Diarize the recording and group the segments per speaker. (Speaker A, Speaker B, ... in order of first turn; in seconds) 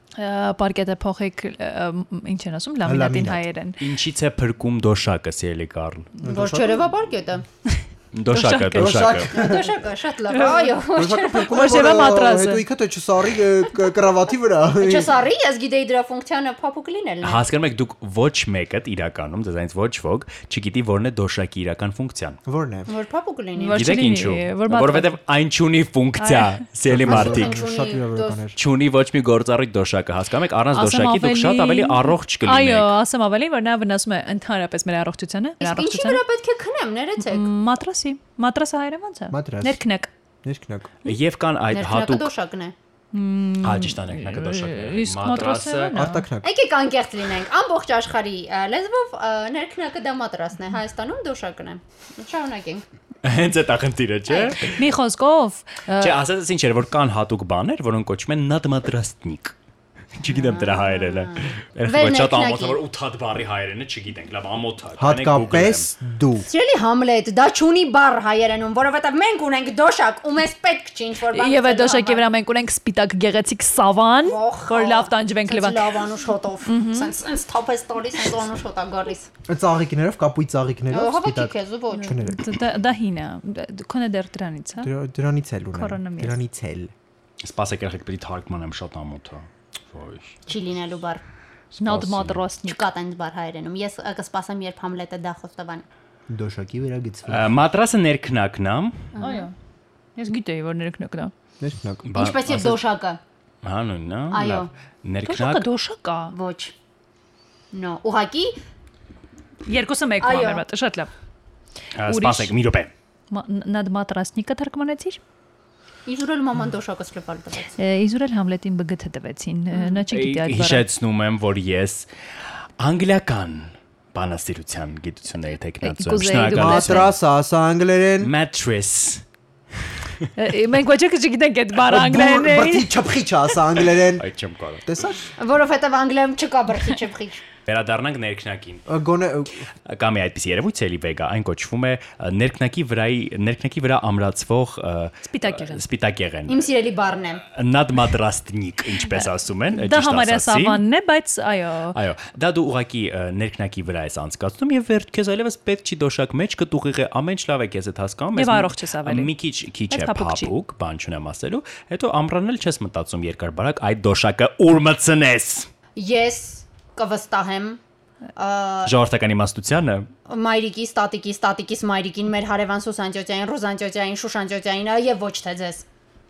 Speaker A: 0.1-3.8, 8.3-9.1, 10.3-10.8, 11.4-12.6, 23.6-25.1, 26.2-26.6, 30.7-36.2, 37.2-40.1, 43.1-46.3, 54.6-56.2, 71.3-76.0, 76.7-77.1, 82.0-84.9, 85.7-86.4, 91.8-92.8, 99.2-99.5, 100.2-101.3, 105.2-106.3, 109.7-111.1, 112.0-112.5, 113.3-115.2, 117.8-120.8, 125.8-127.1, 130.4-133.0, 145.2-145.8, 149.1-151.9, 158.3-159.3, 159.9-160.5
Speaker B: 2.8-3.4, 6.2-6.8, 8.7-9.8, 10.9-15.1, 22.4-22.9, 26.9-28.6, 39.3-39.8, 40.4-40.9, 45.9-46.5, 65.0-66.5, 79.5-82.5, 84.8-86.9, 91.8-92.2, 96.3-97.5, 101.6-102.0, 126.5-128.3, 131.9-134.2, 134.8-135.3, 138.9-139.7
Speaker C: 3.8-6.1, 8.1-9.3, 17.2-22.4, 23.7-27.6, 28.5-32.9, 41.0-42.3, 43.6-46.1, 53.2-54.8, 56.0-59.5, 60.1-65.9, 87.4-90.4, 91.9-92.3, 97.3-99.1, 102.0-102.8, 103.6-105.7, 112.0-112.9, 120.1-127.1, 128.2-129.2, 130.0-130.3, 134.0-134.9, 137.7-138.9, 139.8-146.7, 147.4-150.8, 151.9-165.7, 168.8-170.1
Speaker D: 6.2-7.4, 9.3-11.7, 14.8-17.4, 22.9-24.1, 27.0-28.4, 35.6-37.5, 41.7-42.7, 46.4-52.8, 54.3-54.6, 60.3-62.8, 66.5-72.2, 74.2-79.3, 80.9-82.2, 90.5-91.2, 92.6-95.8, 99.1-99.5, 102.1-103.2, 104.3-104.7, 106.3-106.7, 107.7-108.5, 110.2-110.6, 116.0-117.8, 119.7-120.0, 135.4-137.4, 146.5-147.4, 165.9-167.8, 168.3-168.9, 170.3-175.8